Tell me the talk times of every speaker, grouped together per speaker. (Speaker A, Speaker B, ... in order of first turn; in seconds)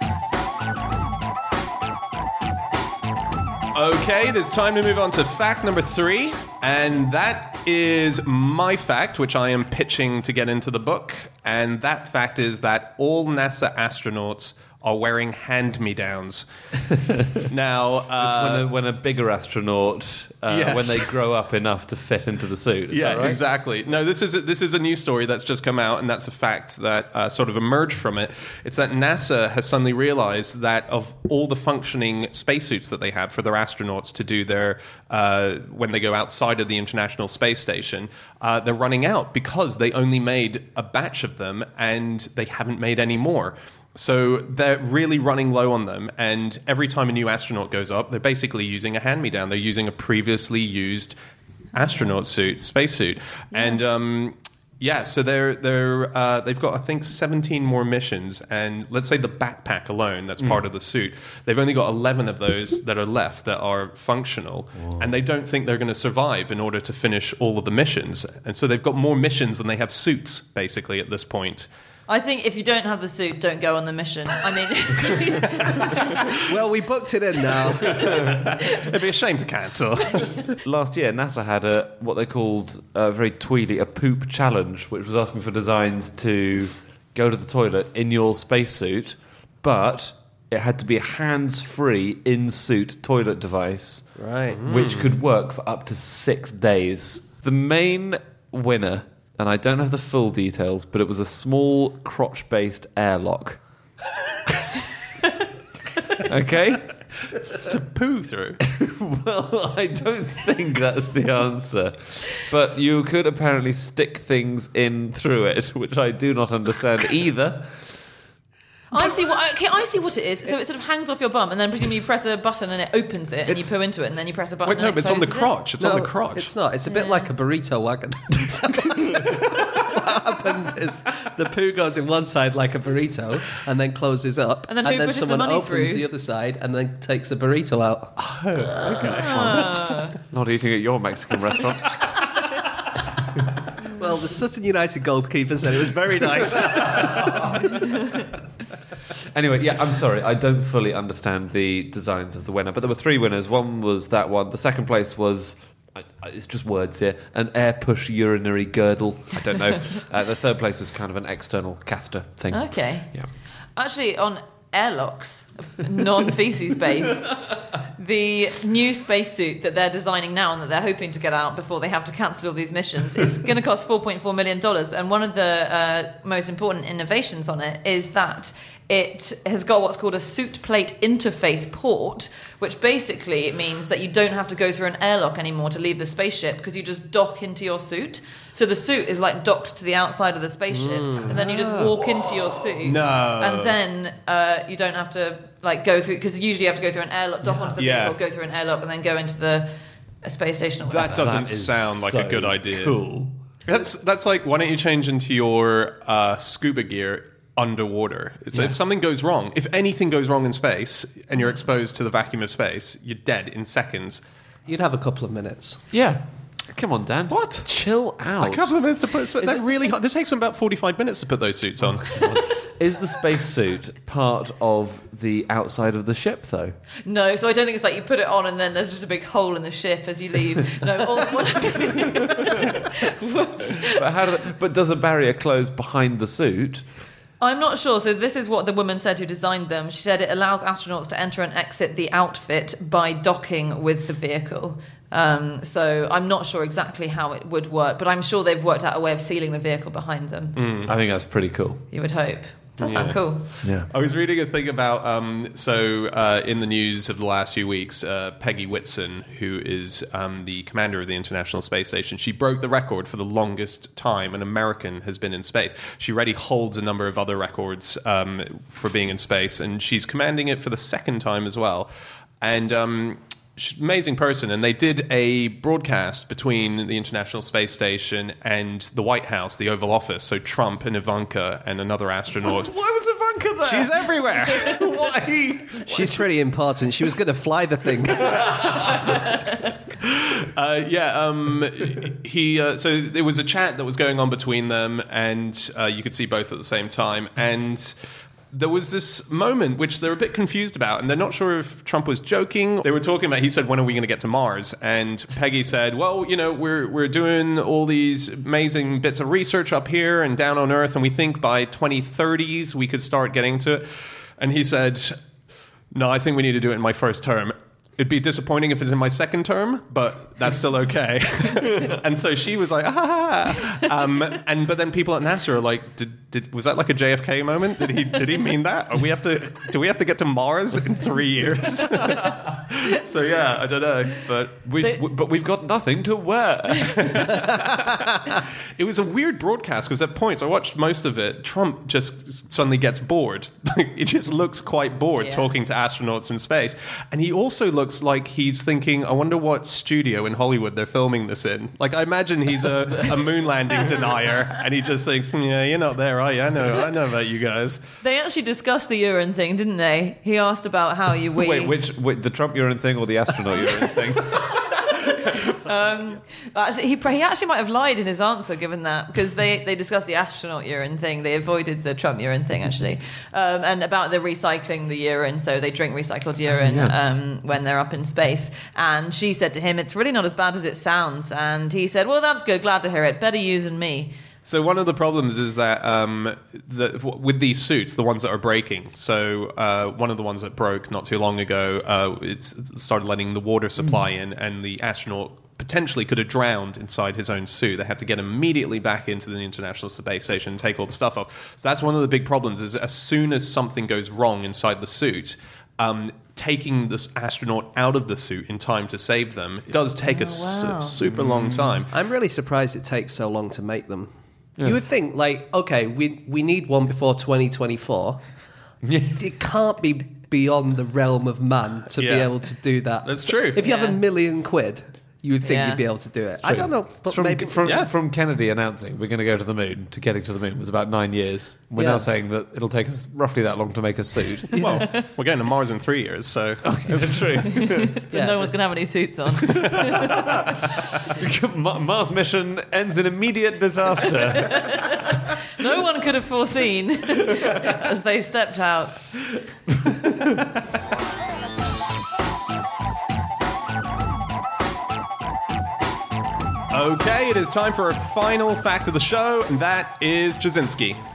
Speaker A: 3.7-16.5, 17.4-18.7, 20.5-21.1, 22.9-51.2, 51.7-71.7, 78.0-80.6, 94.6-95.1, 107.5-108.6, 124.6-126.5, 138.2-140.0, 192.8-193.8, 197.8-198.2, 201.0-203.0, 203.7-214.2, 218.4-222.4, 250.6-250.9, 252.8-271.9, 272.4-282.7, 283.6-284.9, 290.1-298.0, 298.5-315.2, 315.9-334.4, 337.2-337.9, 338.8-358.0, 384.4-411.9, 422.0-422.3, 423.0-423.6, 427.6-427.9, 434.6-437.4, 456.7-461.0
Speaker B: 16.9-17.4, 18.2-23.4, 80.7-103.6, 106.2-107.0, 108.6-118.0, 139.2-142.3, 149.2-163.3, 191.3-192.6, 200.8-203.3, 215.9-218.8, 222.1-226.8, 233.9-236.9, 250.9-251.8, 252.9-253.9, 282.4-286.3, 288.3-289.1, 333.3-338.0, 361.4-364.8, 376.5-376.9, 411.0-411.8, 418.8-419.2, 426.4-434.6, 436.6-438.0, 441.1-445.1
Speaker C: 53.5-53.8, 72.1-76.3, 118.9-125.5, 126.9-127.3, 134.7-136.1, 139.0-140.2, 162.5-163.2, 163.8-201.2, 227.1-234.1, 237.4-250.6, 251.9-253.4, 345.2-345.5, 358.0-361.8, 363.9-384.1, 410.0-411.0, 423.6-424.0, 425.4-425.8, 434.8-435.0, 437.5-440.4, 444.3-449.1
Speaker D: 76.4-78.1, 94.2-94.6, 125.8-138.1, 143.8-147.9, 190.7-191.3, 214.7-215.8, 285.9-288.9, 411.9-418.2, 419.1-427.8, 431.8-432.0, 434.5-434.8, 438.1-438.5